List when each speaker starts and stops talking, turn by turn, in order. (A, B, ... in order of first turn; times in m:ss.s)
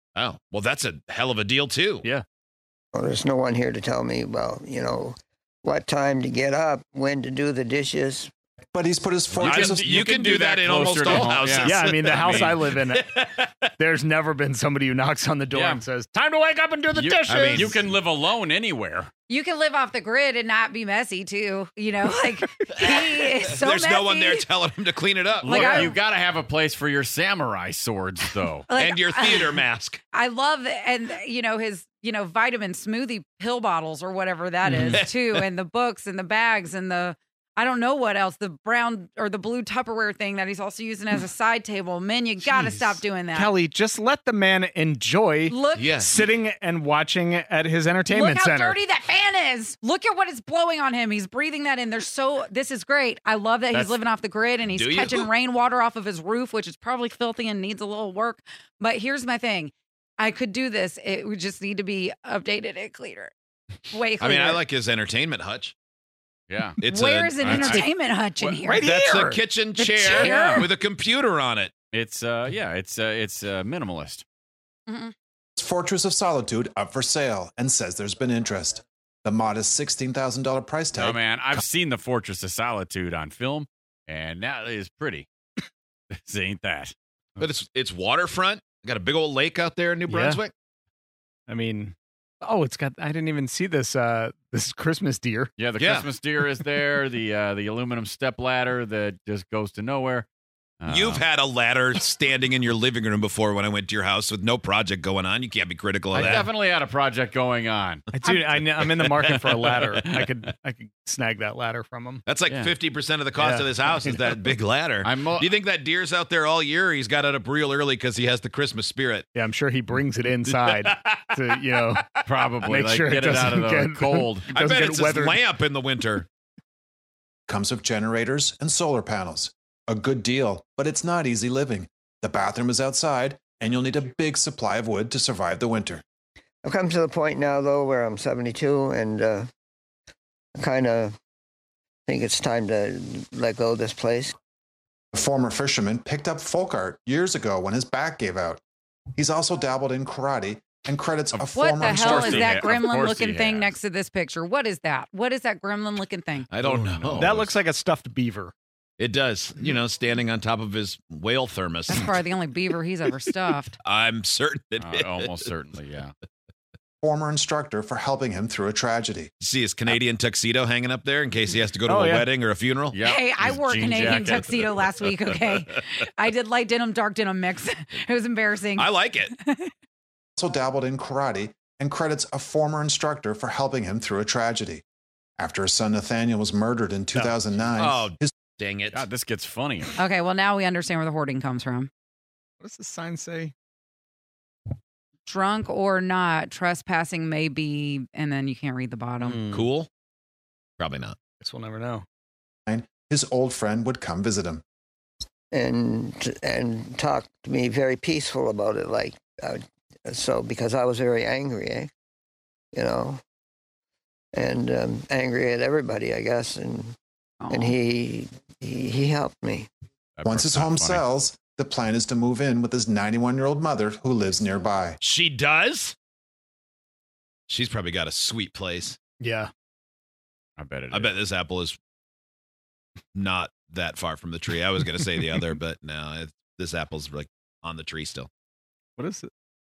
0:00.1-0:02.1 A
0:02.9-0:08.3 B
0:08.7-0:10.0 C
0:09.4-0:12.6 D
0:09.4-0:13.7 A
0:11.1-0:13.2 E
0:13.8-0:17.8 E
0:15.5-0:15.8 D
0:16.9-0:19.1 D
0:17.3-0:17.8 A
0:19.3-0:24.4 F
0:22.8-0:25.8 A
0:25.4-0:28.7 D
0:25.4-0:26.0 F
0:25.6-0:25.9 E
0:28.7-0:29.6 F
0:28.8-0:30.0 A
0:30.1-0:43.5 F
0:34.7-0:35.0 E
0:34.8-0:35.4 A
0:42.5-0:48.8 E
0:45.5-0:45.9 F
0:45.7-0:46.2 A
0:48.1-1:03.3 F
0:54.7-0:55.3 A
1:03.9-1:04.6 F
1:04.2-1:05.7 A
1:06.5-1:06.8 D
1:06.8-1:07.8 A
1:06.9-1:08.8 F
1:07.4-1:07.8 D
1:08.4-1:09.4 E
1:08.8-1:11.7 A
1:09.8-1:10.7 F
1:10.1-1:10.7 D
1:11.9-1:14.2 D
1:14.9-1:15.1 F
1:15.6-1:21.2 C
1:20.9-1:25.3 D
1:26.1-1:26.9 D
1:27.4-1:30.5 A
1:30.1-1:30.4 E
1:31.5-1:35.6 E
1:35.6-1:40.3 D
1:35.8-1:36.1 A
1:40.8-1:41.2 D
1:40.9-1:46.5 A
1:46.1-1:50.3 D
1:48.1-1:52.2 E
1:52.2-1:59.3 A
1:52.5-1:52.8 D
1:53.4-1:54.0 E
1:55.0-1:55.5 D
1:59.3-2:02.1 E
2:00.4-2:02.1 A
2:02.2-2:04.5 D
2:02.6-2:05.4 E
2:04.5-2:06.2 A
2:07.5-2:16.0 C
2:16.6-2:19.5 B
2:20.6-2:21.2 B
2:22.1-2:24.3 B
2:25.1-2:28.6 C
2:29.2-2:32.6 C
2:31.3-2:33.8 D
2:31.5-2:36.5 F
2:36.5-2:37.5 A
2:36.6-2:36.9 D
2:37.0-2:38.5 E
2:39.0-2:42.2 A
2:41.9-2:43.8 F
2:43.8-2:45.4 A
2:44.8-2:46.1 D
2:47.0-2:49.3 C
2:49.4-2:53.0 A
2:51.9-2:52.3 E
2:52.9-2:54.8 D
2:53.0-2:59.7 F
2:58.8-2:59.3 A
3:00.4-3:04.8 C
3:05.4-3:08.3 C
3:07.1-3:07.5 E
3:07.8-3:09.0 A
3:08.9-3:09.9 D
3:10.0-3:11.9 F
3:12.6-3:13.5 E
3:15.2-3:19.4 F
3:19.2-3:19.6 D
3:19.5-3:19.9 A
3:20.8-3:21.2 A
3:21.4-3:22.0 E
3:22.7-3:24.6 C
3:25.5-3:31.9 B
3:32.7-3:33.2 B
3:34.3-3:36.9 B
3:37.4-3:37.7 F
3:37.5-3:39.7 B
3:40.2-3:41.0 D
3:40.2-3:45.0 C
3:45.0-3:45.9 A
3:47.5-3:49.0 A
3:49.2-3:49.5 E
3:50.6-3:51.1 D
3:50.9-3:51.8 A
3:53.1-3:58.3 A
3:59.0-3:59.3 E